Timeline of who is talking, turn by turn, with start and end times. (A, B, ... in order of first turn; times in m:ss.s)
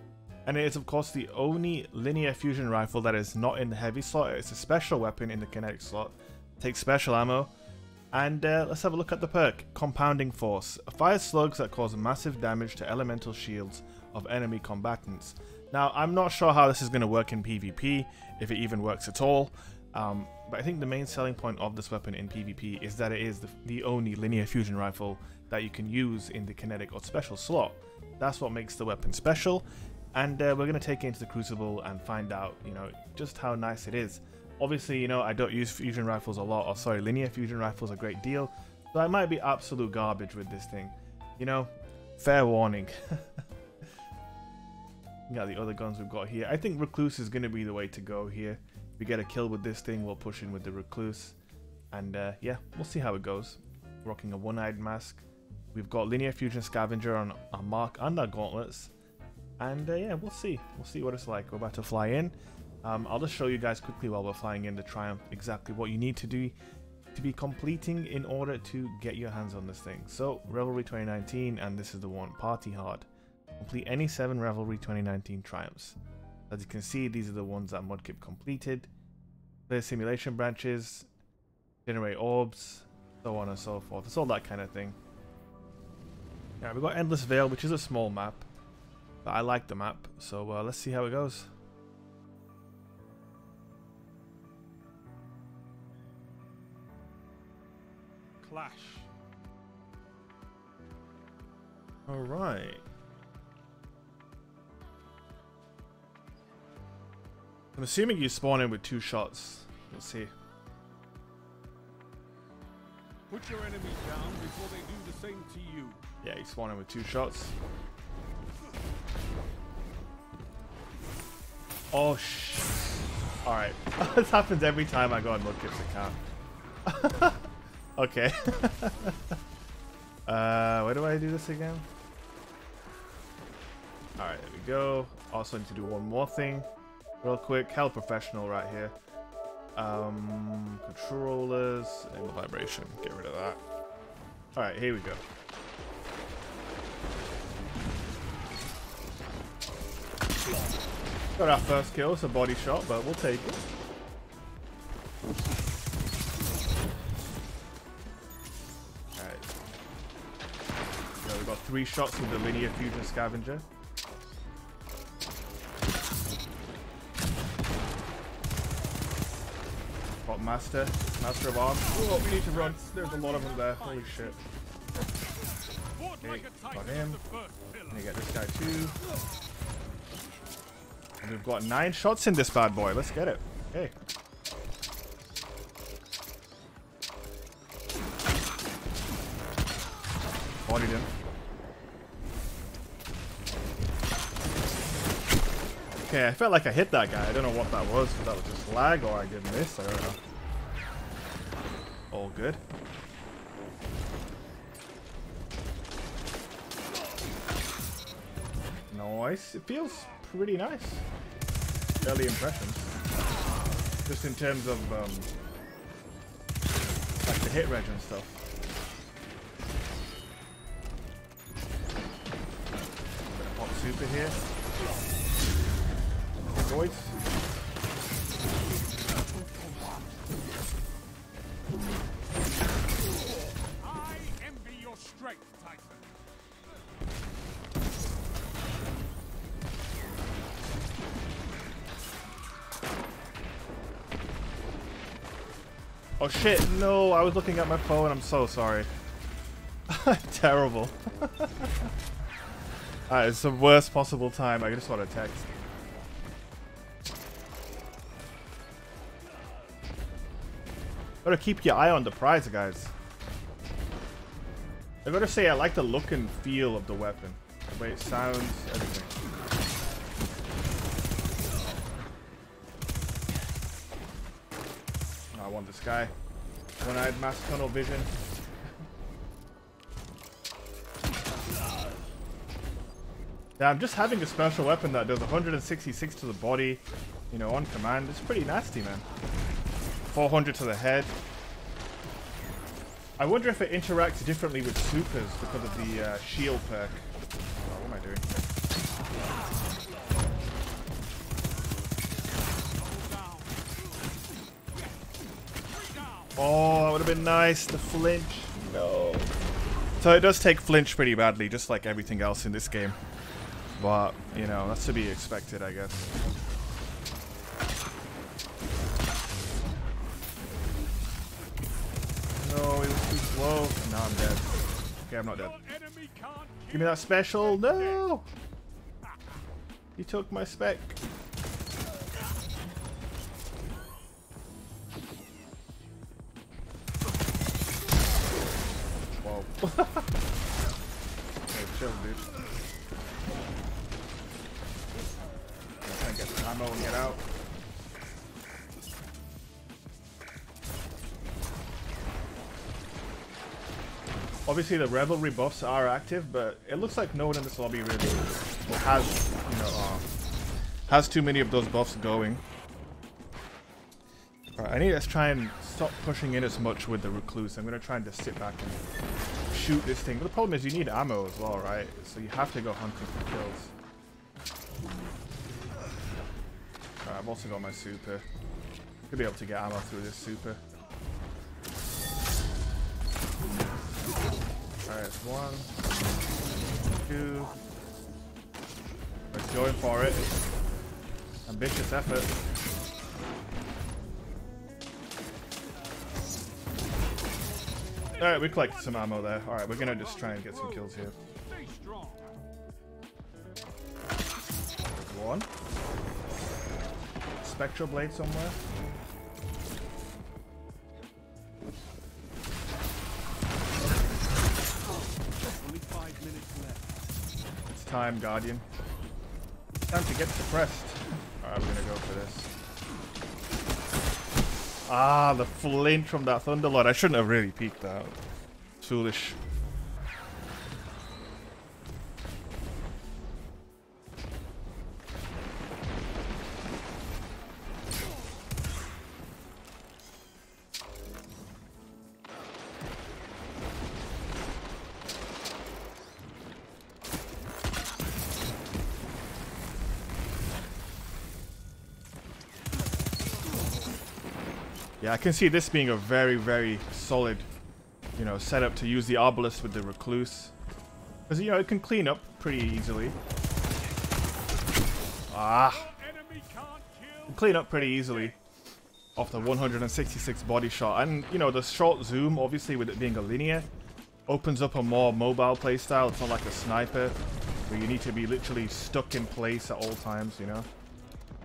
0:00.4-0:07.5 A
0:08.1-0:43.4 A
0:45.3-0:51.4 A
0:51.9-0:58.9 A
0:59.6-1:06.6 A
1:07.1-1:16.0 A
1:16.5-1:18.9 A
1:19.7-1:21.1 A
1:21.8-1:25.0 A
1:26.6-1:28.5 A
1:29.2-1:31.5 A
1:38.4-1:39.0 B
1:42.1-1:42.8 A
1:47.8-1:50.3 A
1:53.3-1:56.0 B
1:56.2-1:57.6 A
2:01.9-2:02.9 A
2:03.4-2:06.2 A
2:06.8-2:09.4 A
2:10.3-2:11.9 A
2:14.2-2:16.7 A
2:17.2-2:18.9 A
2:19.8-2:23.6 A
2:24.6-2:25.2 A
2:31.4-2:33.6 A
2:39.1-2:39.5 A
2:41.2-2:43.6 A
2:50.2-2:54.4 A
2:52.0-2:54.4 B
2:56.0-2:58.0 B
2:56.2-2:57.2 A
2:57.9-2:59.0 A
3:01.2-3:03.9 A
3:10.6-3:11.1 A
3:16.0-3:20.2 A
3:22.1-3:22.6 A
3:28.9-3:31.0 A
3:32.0-3:32.9 A
3:34.0-3:35.3 A
3:37.2-3:38.4 A
3:43.3-3:44.4 A
3:46.6-3:47.2 A
3:53.8-3:56.1 B
4:06.2-4:08.9 A
4:09.9-4:11.9 A
4:13.1-4:15.5 A
4:21.2-4:22.9 A
4:25.0-4:29.1 A
4:35.3-4:36.1 A
4:36.8-4:38.1 A
4:43.6-4:49.0 A
4:50.1-4:51.1 A
4:53.2-4:57.0 A
4:57.6-4:58.2 A
5:02.8-5:03.7 B
5:05.8-5:06.3 B
5:06.4-5:09.3 A
5:10.0-5:13.0 A
5:13.8-5:16.1 A
5:22.4-5:25.6 A
5:25.4-5:28.0 B
5:26.7-5:28.2 A
5:30.0-5:31.0 A
5:39.1-5:40.1 A
5:41.5-5:42.3 A
5:45.8-5:47.2 A
5:54.4-6:00.1 A
6:00.9-6:02.4 A
6:04.6-6:08.8 A
6:09.5-6:13.7 A
6:17.0-6:18.2 A
6:19.1-6:20.6 A
6:24.8-6:25.7 A
6:27.0-6:27.6 A
6:29.3-6:30.4 A
6:31.5-6:32.4 A
6:38.1-6:40.8 B
6:38.2-6:41.2 A
6:41.4-6:42.3 B
6:44.9-6:45.5 A
6:47.4-6:48.6 A
6:55.4-6:57.0 B
6:57.7-6:58.6 A
6:59.9-7:02.5 A
7:04.9-7:08.2 A
7:08.8-7:09.4 A
7:35.0-7:37.5 A
7:38.2-7:40.5 A
7:41.3-7:43.2 A
7:45.3-7:45.9 A
7:45.9-7:48.1 B
7:47.3-7:48.4 A
7:49.2-7:53.7 A
7:54.3-8:00.7 A